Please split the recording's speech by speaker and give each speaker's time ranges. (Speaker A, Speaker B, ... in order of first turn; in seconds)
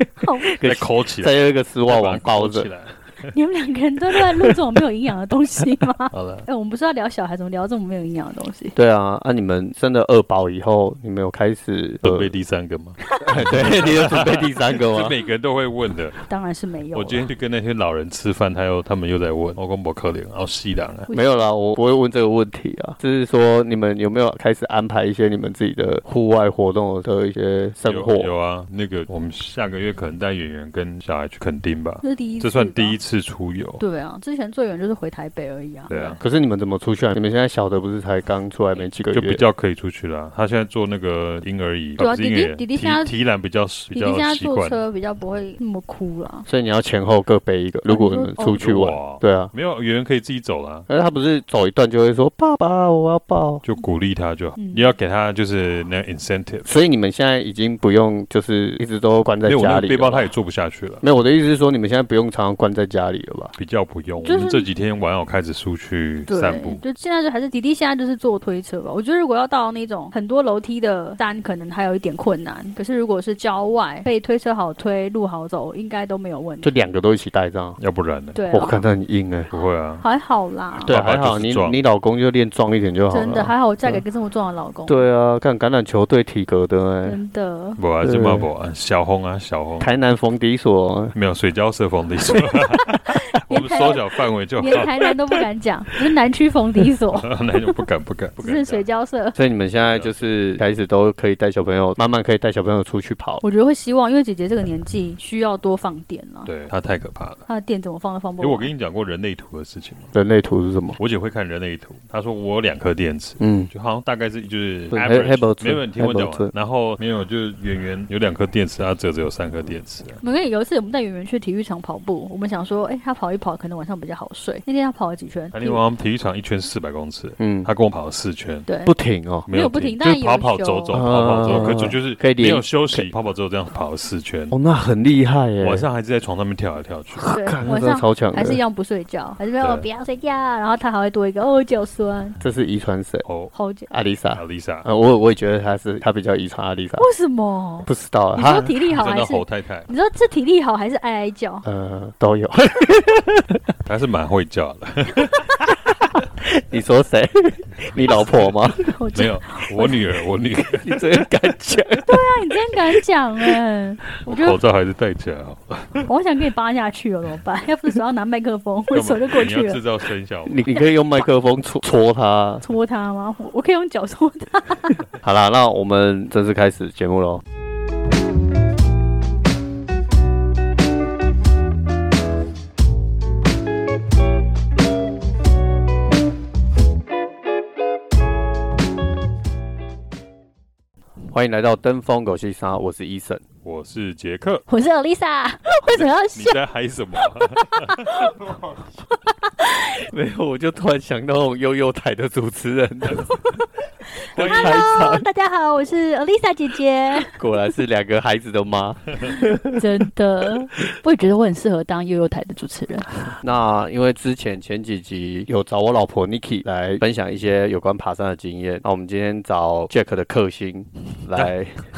Speaker A: 0.2-0.5, 3.3-8.8, 13.1-13.4, 16.3-17.3, 32.0-33.0, 33.8-36.2, 42.0-43.1, 43.9-46.5, 47.9-48.6, 54.6-54.9, 64.2-64.7, 66.3-76.7, 78.3-78.8, 80.0-80.9, 83.1-85.0, 87.0-87.8, 92.8-94.0, 94.6-97.3, 98.4-99.3, 103.4-106.5, 107.5-108.7, 120.2-125.8, 128.7-128.9, 129.5-131.9, 137.3-142.4, 143.5-143.9, 147.0-151.7, 158.8-160.0, 162.1-164.6, 166.1-169.8, 172.6-175.0, 194.7-196.6, 197.5-200.0, 204.2-207.3, 209.7-213.1
Speaker B: 0.4-2.7, 8.8-12.3, 13.2-15.2, 21.1-28.3, 36.2-39.4, 46.5-49.5, 50.9-53.6, 56.6-60.3, 61.0-63.5, 76.6-77.8, 78.5-79.5, 80.8-84.0, 84.9-87.2, 88.0-88.5, 89.8-91.1, 99.3-103.4, 110.1-111.0, 113.4-113.7, 114.9-116.5, 127.4-127.7, 128.8-129.5, 130.9-133.1, 134.5-135.8, 137.2-138.6, 142.4-143.2, 143.9-147.1, 147.8-148.7, 151.6-153.6, 156.3-158.9, 160.8-162.2, 170.4-172.6, 175.2-177.4, 191.3-193.4, 199.8-203.6, 204.3-205.2, 207.3-209.8, 213.2-221.8
Speaker C: 0.6-1.3, 1.9-3.3, 6.1-6.5, 12.0-16.2, 16.9-21.1, 27.8-33.8, 35.9-36.2, 39.1-44.8, 48.4-50.9, 53.6-56.7, 59.4-61.0, 63.6-66.8, 77.8-78.4, 79.5-80.0, 80.8-81.8, 87.8-89.9, 91.1-95.1, 97.1-98.8, 99.8-100.1, 106.4-107.4, 108.4-110.1, 111.0-120.2, 125.5-128.7, 129.5-134.5, 135.6-137.3, 139.6-139.9, 143.2-143.5, 144.3-144.8, 148.9-149.9, 153.8-155.8, 159.1-161.1, 164.2-166.1, 168.9-170.7, 193.6-194.6, 195.9-198.1, 204.3-205.1